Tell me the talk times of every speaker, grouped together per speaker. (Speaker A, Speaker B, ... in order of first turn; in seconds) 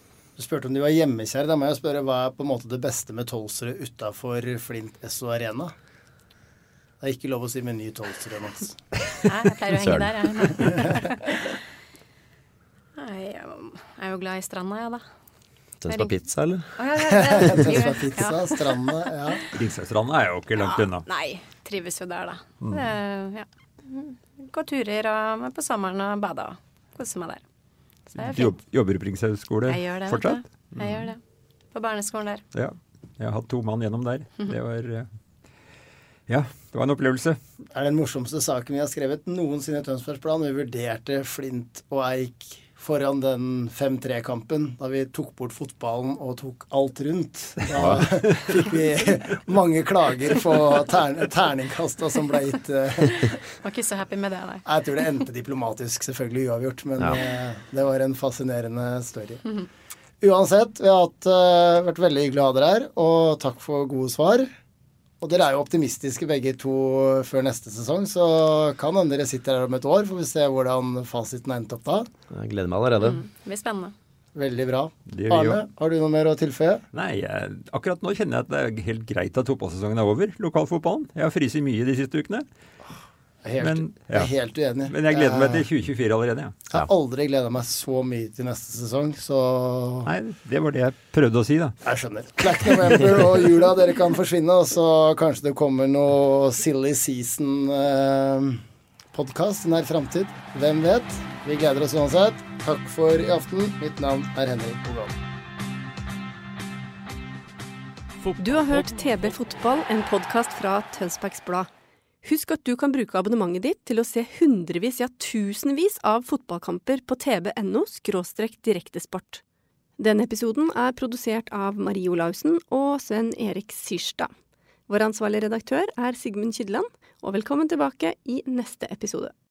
Speaker A: 0.4-5.7, 7.0-8.8, 10.8-11.1, 17.0-19.5, 37.7-53.4, 54.6-59.6, 60.2-64.5, 65.2-72.1, 74.3-76.8, 83.4-85.7, 86.7-90.1, 91.8-98.6, 99.1-105.1
Speaker B: 9.2-11.4, 12.9-15.0, 15.9-16.1, 16.7-18.9, 20.6-27.4, 28.1-28.5, 29.6-31.2, 31.7-32.4, 53.1-54.6, 73.0-73.9
Speaker C: 9.7-10.3, 15.8-16.8, 47.7-48.0, 72.3-73.2
Speaker D: 19.5-21.0, 28.2-31.1, 32.5-35.1, 36.3-37.4, 75.1-75.6, 76.9-82.4, 83.6-84.3, 84.9-86.5, 90.0-91.8
Speaker E: 108.3-111.7, 112.2-119.4, 120.0-124.3, 124.9-129.3